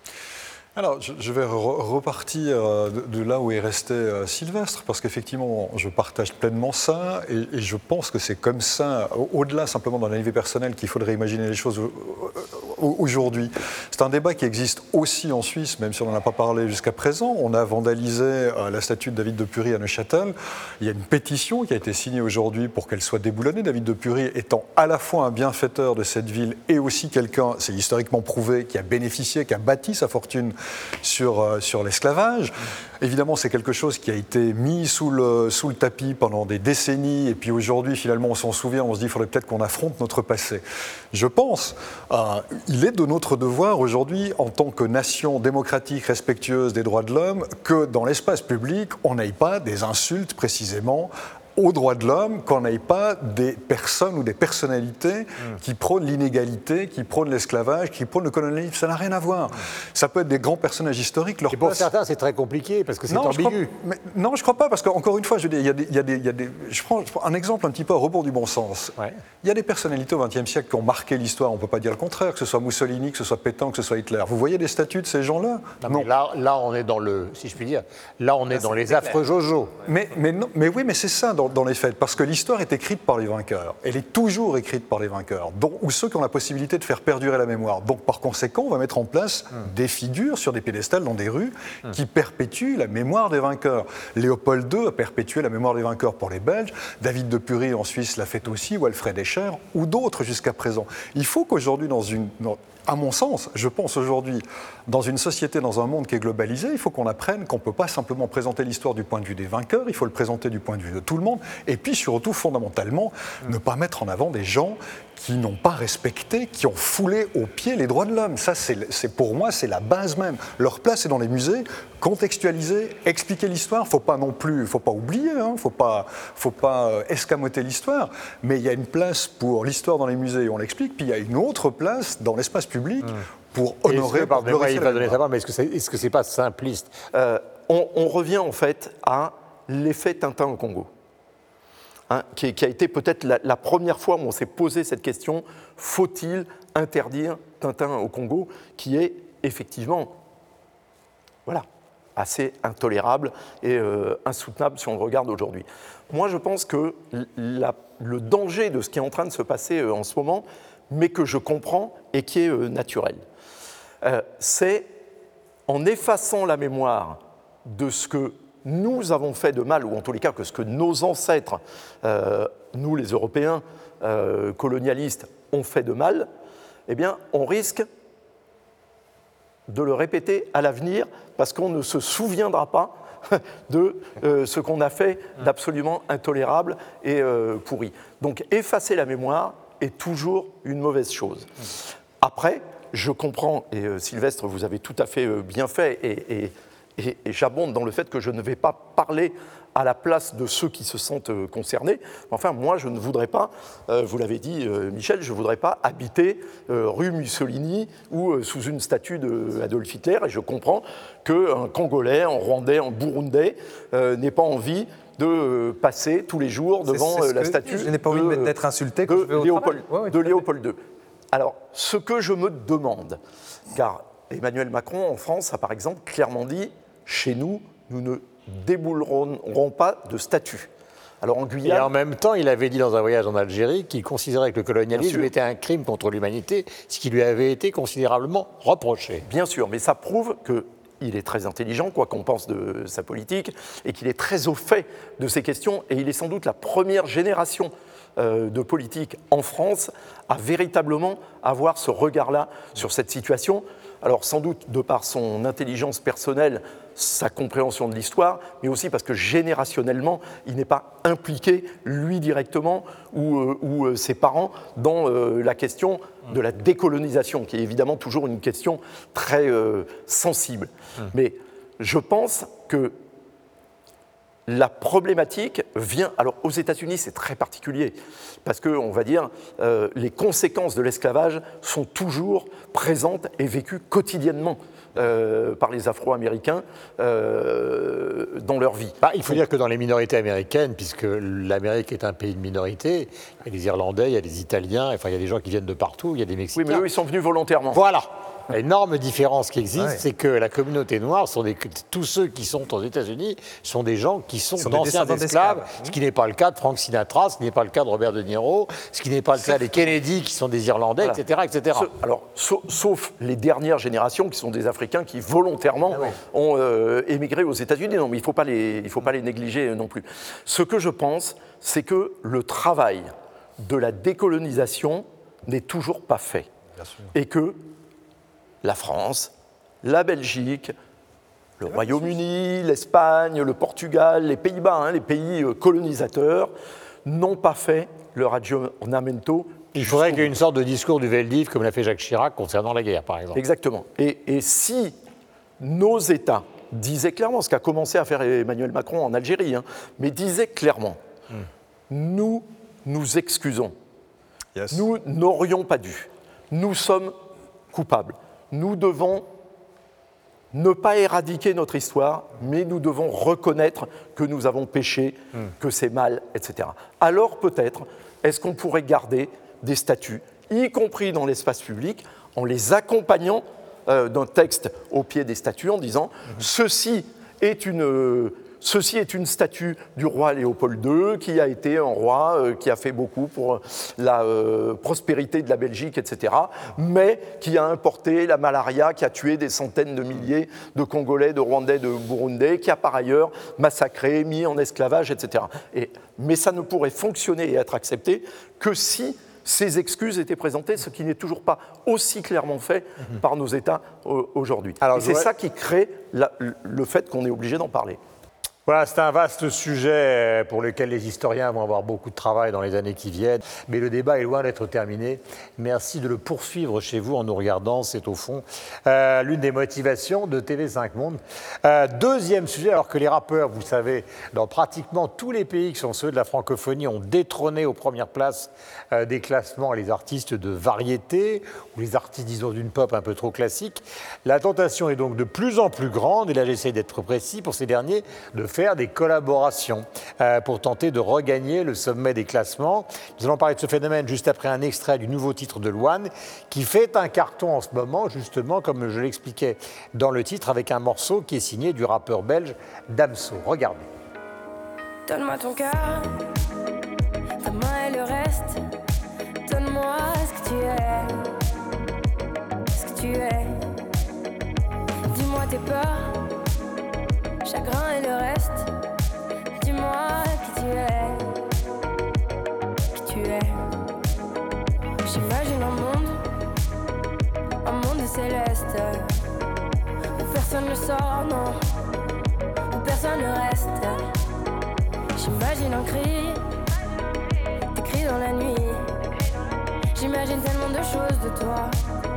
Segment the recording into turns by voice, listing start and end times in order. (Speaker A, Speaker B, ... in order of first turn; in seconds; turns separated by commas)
Speaker A: 0.8-61.9, Speaker B: 61.5-63.7, Speaker A: 63.1-76.1, Speaker B: 75.8-79.7, Speaker C: 78.7-79.2, Speaker A: 79.9-135.2, Speaker B: 133.9-136.9, Speaker D: 137.1-140.9, Speaker D: 142.1-150.1, Speaker D: 152.2-163.2, Speaker D: 164.0-164.9, Speaker D: 165.7-176.3, Speaker D: 176.9-177.8, Speaker D: 179.7-191.5, Speaker D: 192.2-218.5, Speaker C: 216.9-220.4, Speaker D: 219.1-220.8, Speaker D: 221.3-223.2, Speaker D: 223.7-230.7, Speaker D: 231.2-231.9, Speaker B: 231.6-239.2, Speaker D: 234.9-235.3, Speaker D: 239.3-272.9, Speaker D: 274.5-289.0, Speaker B: 289.0-296.9, Speaker D: 296.6-297.8, Speaker B: 297.7-311.9, Speaker C: 304.6-305.9, Speaker D: 311.8-326.5, Speaker A: 326.8-327.1, Speaker D: 327.1-327.7, Speaker D: 328.6-329.3, Speaker D: 329.8-330.7, Speaker D: 331.6-336.5, Speaker D: 337.1-340.3, Speaker B: 339.7-343.4, Speaker D: 343.3-345.0, Speaker D: 345.6-351.0, Speaker D: 351.9-353.7, Speaker A: 354.6-354.9, Speaker D: 354.7-357.1, Speaker D: 357.7-359.3, Speaker D: 360.5-408.0, Speaker B: 404.8-405.3, Speaker B: 408.7-453.9, Speaker E: 455.1-456.2, Speaker E: 457.4-458.6, Speaker E: 459.4-461.3, Speaker E: 462.7-463.6, Speaker E: 465.1-466.2, Speaker E: 467.4-468.7, Speaker E: 469.6-471.3, Speaker E: 473.0-473.6, Speaker E: 475.1-476.2, Speaker E: 477.6-479.1, Speaker E: 480.2-481.6, Speaker E: 482.7-484.0, Speaker E: 485.2-486.5, Speaker E: 487.7-488.9, Speaker E: 489.9-491.7